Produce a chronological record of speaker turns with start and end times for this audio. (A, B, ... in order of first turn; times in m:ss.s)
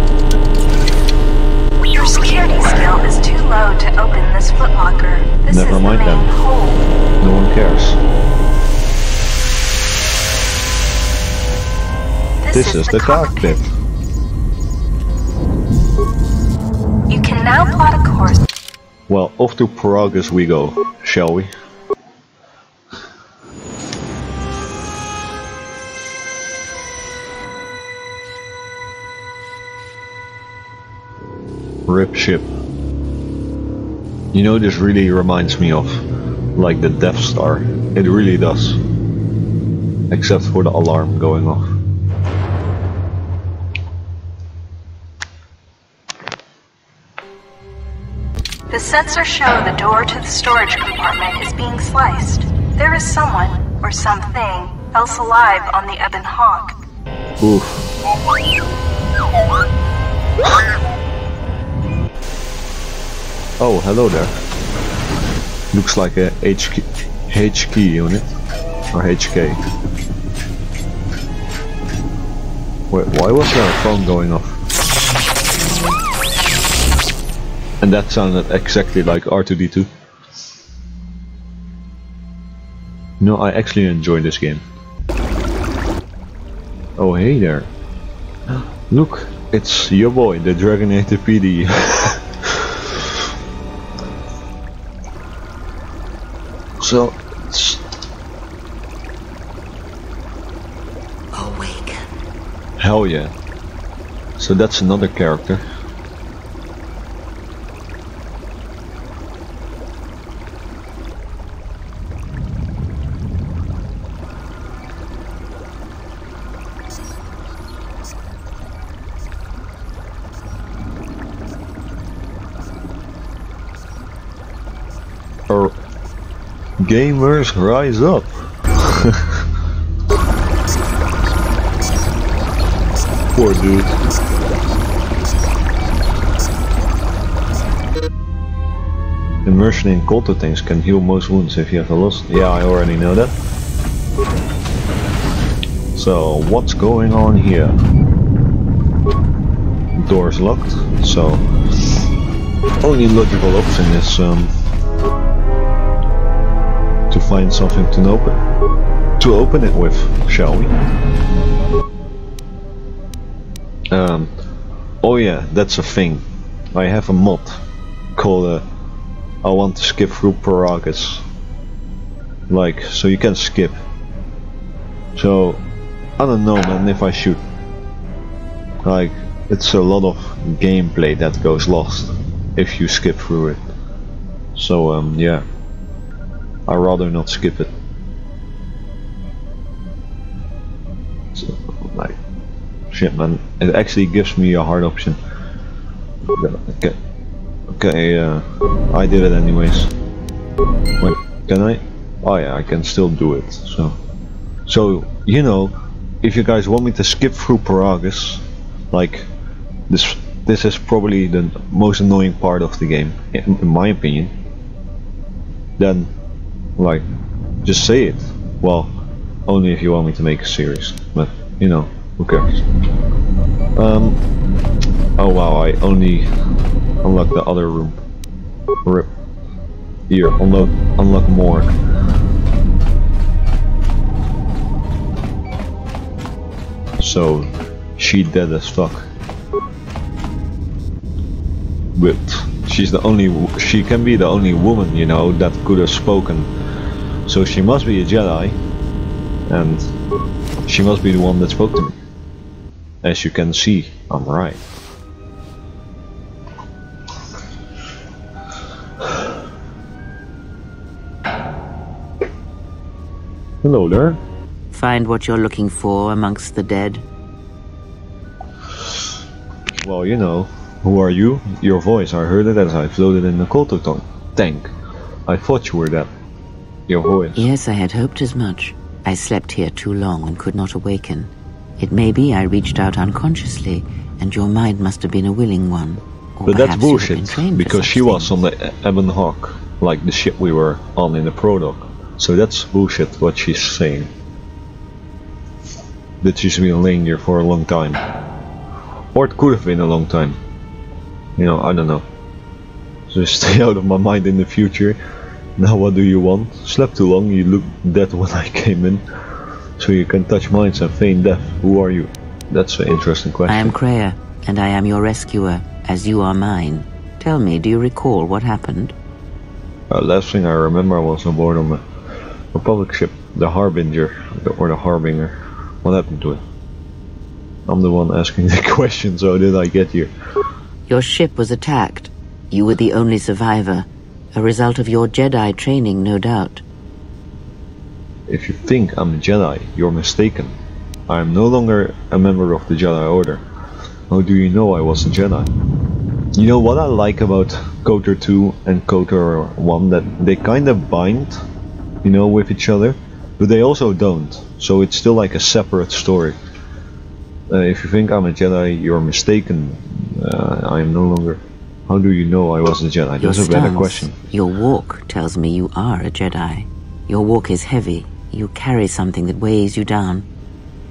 0:01.9-0:06.9 A
0:05.5-0:06.3 B
0:07.2-0:08.0 B
0:12.4-0:13.6 A
0:12.5-0:13.6 B
0:17.1-0:18.4 A
0:19.1-0:21.5 B
0:31.9-0:32.5 B
0:34.3-0:38.8 B
0:40.1-0:41.7 B
0:48.7-0:56.8 A
0:57.4-0:57.9 B
1:03.6-1:04.3 B
1:05.7-1:08.3 B
1:08.9-1:09.6 B
1:12.9-1:14.6 B
1:17.8-1:19.9 B
1:23.2-1:24.6 B
1:27.0-1:27.7 B
1:28.5-1:33.3 B
1:36.8-1:37.8 B
1:41.3-1:42.1 C
1:42.8-1:43.3 B
1:44.4-1:45.6 B
2:05.5-2:05.7 B
2:06.8-2:09.5 B
2:13.3-2:14.0 B
2:19.4-2:23.3 B
2:25.9-2:27.7 B
2:30.0-2:32.1 B
2:32.8-2:34.5 B
2:37.1-2:38.4 B
2:39.2-2:40.8 B
2:43.9-2:44.3 B
2:45.0-2:47.6 B
2:48.1-2:48.6 B
2:49.4-2:51.2 B
2:52.5-2:53.8 B
2:55.1-2:55.6 B
2:56.2-2:57.4 B
2:58.8-3:03.6 B
3:04.5-3:05.4 B
3:06.7-3:07.7 B
3:11.3-3:12.2 B
3:12.9-3:15.2 B
3:16.2-3:17.0 B
3:17.7-3:19.9 B
3:21.0-3:24.0 B
3:24.6-3:29.3 B
3:29.9-3:34.3 B
3:35.8-3:36.1 B
3:36.8-3:37.0 B
3:37.6-3:38.9 B
3:39.5-3:42.7 B
3:43.7-3:44.2 B
3:45.2-3:46.3 B
3:47.0-3:48.0 B
3:48.8-3:49.1 B
3:50.1-3:51.8 B
3:57.0-3:59.1 B
4:01.9-4:06.5 B
4:07.2-4:08.6 B
4:09.5-4:09.9 B
4:10.6-4:12.0 B
4:13.0-4:14.6 B
4:23.6-4:24.2 B
4:24.7-4:27.0 C
4:29.8-4:34.7 B
4:35.3-4:36.1 B
4:36.9-4:37.5 B
4:37.4-4:48.3 C
4:46.4-4:54.1 B
4:56.2-4:58.0 B
4:59.1-5:00.4 B
5:01.4-5:02.0 B
5:03.1-5:05.0 B
5:05.6-5:13.8 B
5:13.5-5:18.9 C
5:19.9-5:21.8 B
5:22.5-5:26.4 B
5:27.7-5:30.1 B
5:30.9-5:36.6 C
5:38.3-5:40.5 B
5:41.1-5:43.4 B
5:44.1-5:45.5 B
5:46.3-5:51.4 B
5:52.0-5:56.4 B
5:57.5-6:04.1 B
6:03.2-6:10.2 C